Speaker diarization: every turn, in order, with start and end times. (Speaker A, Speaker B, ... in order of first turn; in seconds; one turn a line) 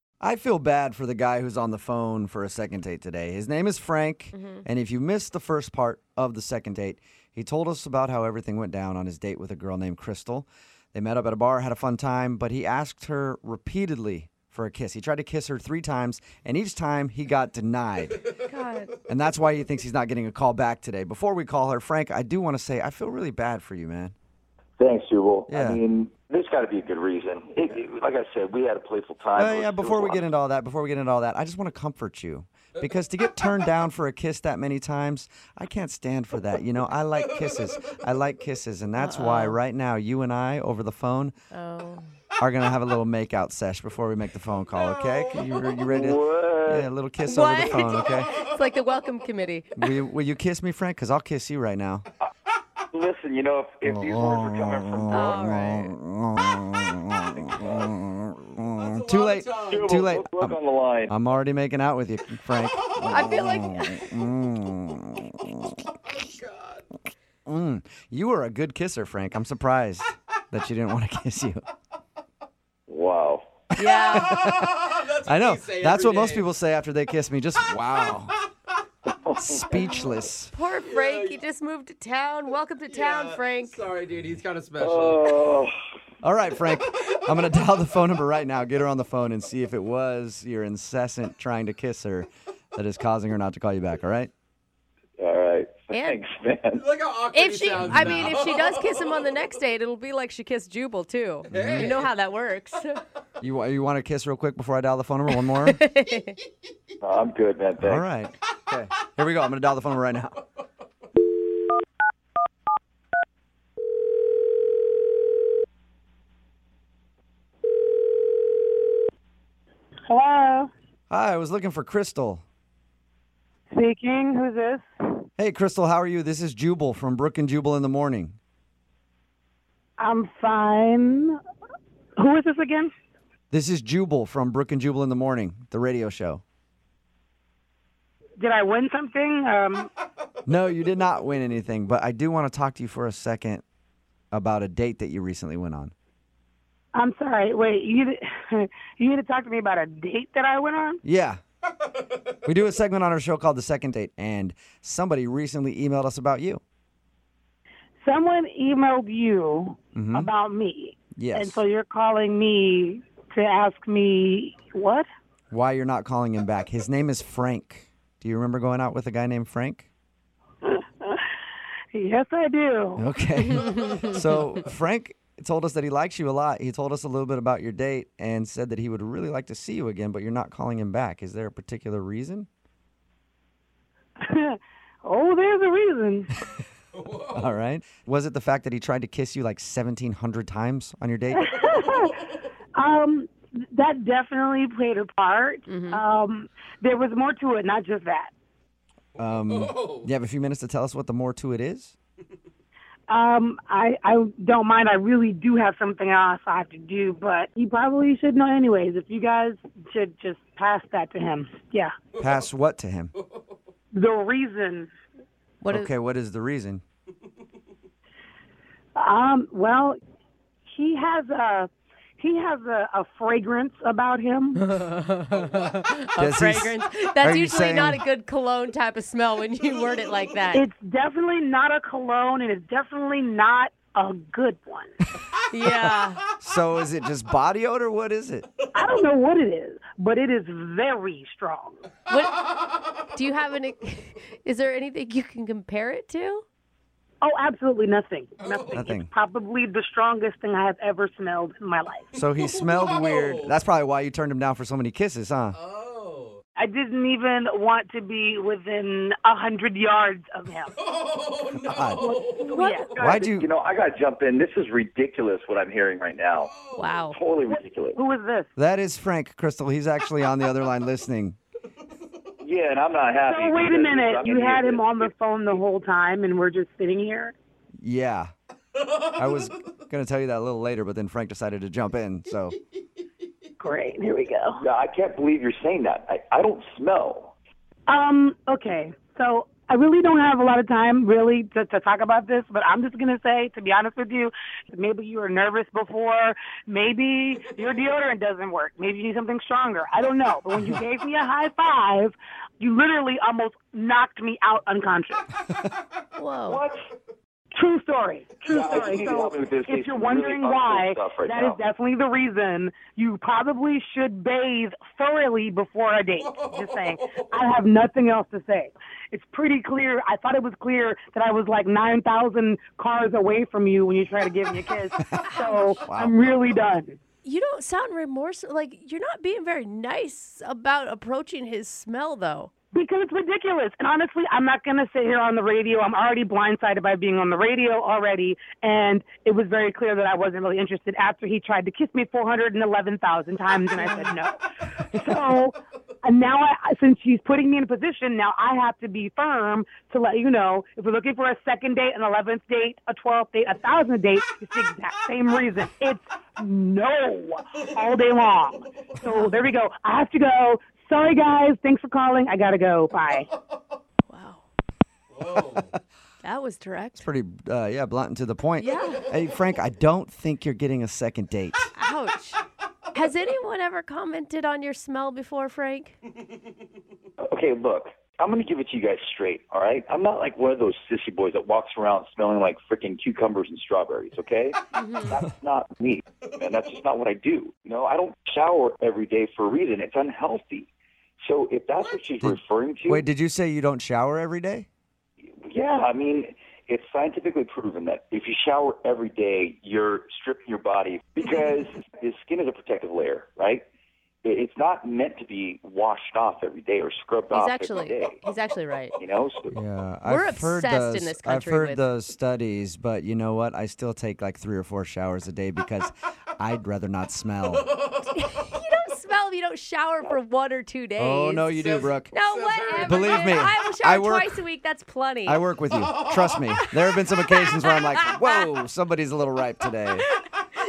Speaker A: 0.2-18.2
Speaker B: 4.3-4.6
Speaker B: 18.4-18.9
Speaker A: 19.1-24.1
Speaker C: 24.8-30.2
Speaker A: 25.5-25.8
Speaker A: 29.4-41.3
Speaker B: 39.0-39.6
Speaker B: 41.5-42.1
Speaker A: 42.4-48.4
Speaker D: 44.8-45.4
Speaker C: 45.8-46.9
Speaker B: 47.2-49.9
Speaker A: 49.8-52.0
Speaker C: 52.9-55.5
Speaker A: 53.9-60.6
Speaker B: 55.1-55.9
Speaker D: 58.7-59.9
Speaker C: 59.6-61.1
Speaker A: 61.1-65.8
Speaker B: 63.0-64.1
Speaker D: 66.0-66.8
Speaker A: 67.5-71.6
Speaker C: 72.9-73.4
Speaker B: 73.7-74.4
Speaker A: 73.7-78.3
Speaker D: 74.3-76.5
Speaker C: 79.1-79.8
Speaker A: 79.3-80.5
Speaker B: 79.8-83.8
Speaker D: 80.9-81.4
Speaker D: 82.9-85.4
Speaker C: 84.8-85.7
Speaker A: 86.2-94.3
Speaker C: 95.2-96.8
Speaker B: 95.9-96.2
Speaker D: 96.8-98.9
Speaker B: 97.3-103.0
Speaker A: 97.8-98.2
Speaker A: 101.5-101.9
Speaker D: 101.5-102.0
Speaker A: 103.4-105.8
Speaker B: 105.5-106.4
Speaker C: 107.0-108.0
Speaker A: 107.8-110.4
Speaker E: 120.1-120.7
Speaker A: 121.1-122.4
Speaker E: 123.7-124.8
Speaker A: 125.4-128.3
Speaker E: 130.0-131.4
Speaker E: 132.2-132.9
Speaker A: 133.5-136.4
Speaker E: 138.4-139.9
Speaker A: 140.5-143.6
Speaker A: 144.3-145.9
Speaker E: 146.9-151.0
Speaker A: 151.0-151.4
Speaker A: 152.4-156.6
Speaker E: 158.0-165.1
Speaker A: 159.9-160.3
Speaker A: 161.1-161.6
Speaker A: 165.5-169.9
Speaker E: 170.6-171.2
Speaker E: 171.9-173.0
Speaker A: 172.9-182.5
Speaker B: 173.7-174.0
Speaker E: 184.2-186.3
Speaker D: 186.9-187.4
Speaker A: 187.3-191.7
Speaker E: 191.3-192.2
Speaker E: 192.7-198.3
Speaker B: 195.7-196.0
Speaker A: 199.2-201.9
Speaker D: 199.5-200.1
Speaker E: 203.1-211.9
Speaker A: 212.2-213.1
Speaker E: 213.9-214.9
Speaker B: 215.6-215.9
Speaker A: 215.7-216.8
Speaker E: 218.9-220.0
Speaker E: 220.7-224.6
Speaker B: 224.6-230.6
Speaker A: 226.2-228.0
Speaker E: 230.5-234.9
Speaker B: 235.5-236.2
Speaker A: 235.6-238.5
Speaker E: 238.7-241.9
Speaker B: 242.1-242.4
Speaker B: 243.1-246.4
Speaker E: 247.2-252.1
Speaker D: 248.4-248.8
Speaker A: 248.7-249.1
Speaker A: 252.1-255.6
Speaker D: 252.4-253.5
Speaker D: 255.5-256.4
Speaker E: 256.6-260.7
Speaker D: 260.8-262.9
Speaker A: 261.5-262.2
Speaker E: 262.2-262.9
Speaker C: 262.9-266.5
Speaker A: 262.9-263.5
Speaker D: 266.5-266.9
Speaker B: 266.7-267.2
Speaker C: 267.1-268.0
Speaker E: 267.5-268.5
Speaker A: 268.6-271.4
Speaker C: 272.4-275.6
Speaker E: 273.2-277.3
Speaker A: 277.8-278.3
Speaker A: 279.1-282.6
Speaker E: 283.6-284.6
Speaker C: 284.6-287.3
Speaker E: 287.9-305.3
Speaker B: 306.2-306.6
Speaker C: 306.4-306.8
Speaker E: 307.5-327.0
Speaker C: 308.4-311.6
Speaker D: 316.4-317.3
Speaker A: 325.0-326.3
Speaker B: 325.3-325.8
Speaker B: 327.2-332.5
Speaker E: 332.7-344.4
Speaker B: 343.7-344.2
Speaker E: 344.9-363.3
Speaker B: 364.1-364.4
Speaker D: 365.1-365.7
Speaker B: 366.2-367.1
Speaker A: 367.0-371.7
Speaker B: 368.6-369.1
Speaker B: 371.7-376.0
Speaker C: 377.2-390.7
Speaker B: 384.7-385.1
Speaker C: 391.2-393.0
Speaker A: 392.2-394.6
Speaker C: 395.4-403.6
Speaker C: 404.2-408.2
Speaker B: 407.3-409.0
Speaker C: 408.9-409.6
Speaker A: 409.5-417.7
Speaker B: 410.1-411.8
Speaker B: 418.1-425.4
Speaker A: 421.0-422.1
Speaker D: 421.8-423.4
Speaker A: 422.8-424.4
Speaker A: 425.2-430.1
Speaker B: 426.4-428.5